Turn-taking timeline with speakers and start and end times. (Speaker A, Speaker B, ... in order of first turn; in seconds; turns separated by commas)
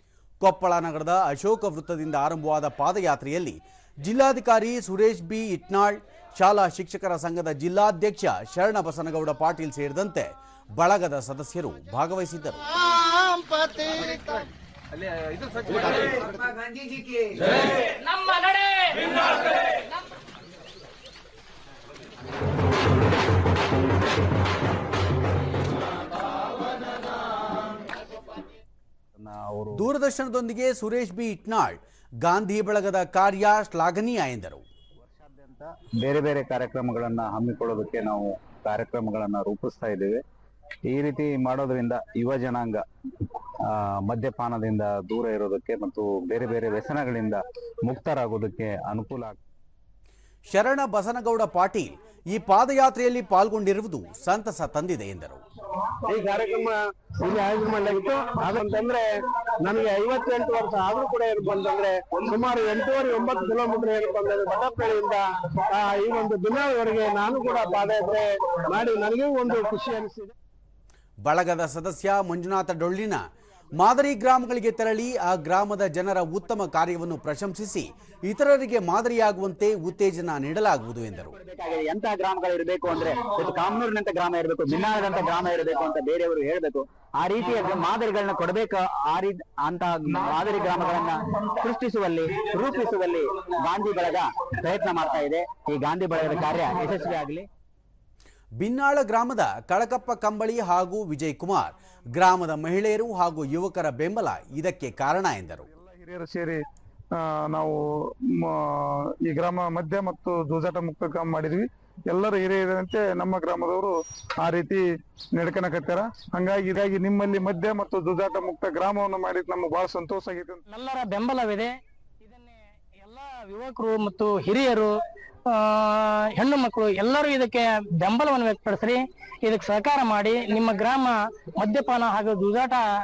Speaker A: 0.4-12.6, Speaker B: 18.2-18.9, Speaker C: 29.2-29.9, Speaker A: 29.8-34.6, Speaker C: 35.0-40.2, Speaker C: 40.9-49.4, Speaker A: 50.5-55.4, Speaker D: 56.0-70.3, Speaker A: 71.2-73.2, Speaker A: 73.8-81.4, Speaker E: 81.4-97.5, Speaker A: 98.6-105.7, Speaker F: 105.7-106.6, Speaker F: 107.1-114.8, Speaker F: 115.4-120.6, Speaker B: 120.7-124.9, Speaker B: 125.5-132.8